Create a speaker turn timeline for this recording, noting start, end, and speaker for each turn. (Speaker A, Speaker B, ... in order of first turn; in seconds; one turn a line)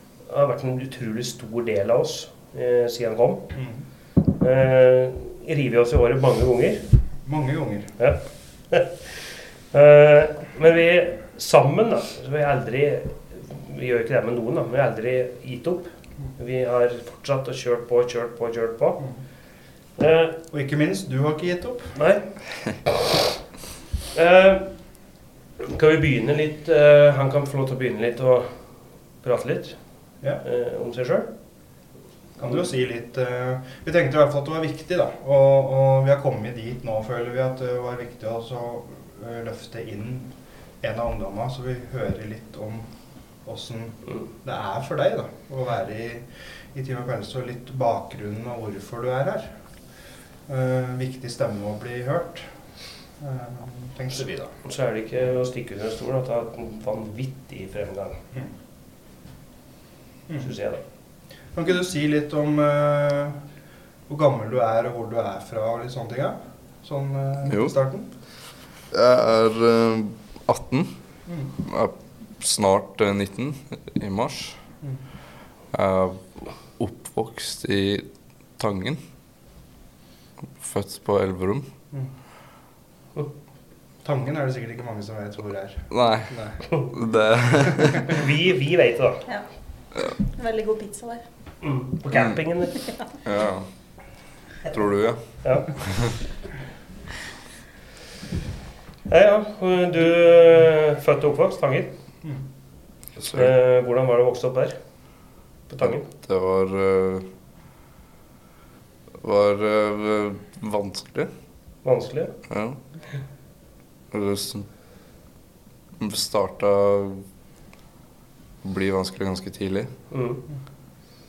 Speaker A: 0.2-3.5
Speaker B: 3.5-3.8
Speaker A: 4.3-6.9
Speaker B: 7.2-8.0
Speaker A: 8.0-9.1
Speaker A: 9.7-19.3
Speaker A: 19.9-20.4
Speaker B: 20.5-22.1
Speaker A: 21.9-22.5
Speaker A: 24.1-25.1
Speaker A: 25.7-31.3
Speaker B: 32.4-49.6
Speaker B: 50.5-54.5
Speaker A: 54.1-58.2
Speaker A: 60.4-60.8
Speaker B: 61.5-63.4
Speaker B: 64.1-68.1
Speaker C: 67.5-67.8
Speaker C: 68.9-70.9
Speaker C: 71.5-74.6
Speaker C: 75.7-79.0
Speaker C: 80.6-81.7
Speaker B: 84.0-86.6
Speaker C: 85.9-88.1
Speaker A: 88.1-89.2
Speaker D: 89.2-91.2
Speaker A: 91.6-92.7
Speaker C: 92.1-92.4
Speaker C: 93.2-96.1
Speaker A: 99.1-101.9
Speaker C: 103.2-103.5
Speaker A: 103.3-106.0
Speaker C: 105.8-107.3
Speaker C: 109.2-111.3
Speaker A: 111.8-112.4
Speaker C: 112.5-112.8
Speaker C: 114.1-114.7
Speaker C: 116.0-117.2
Speaker C: 118.6-119.9
Speaker A: 120.1-120.4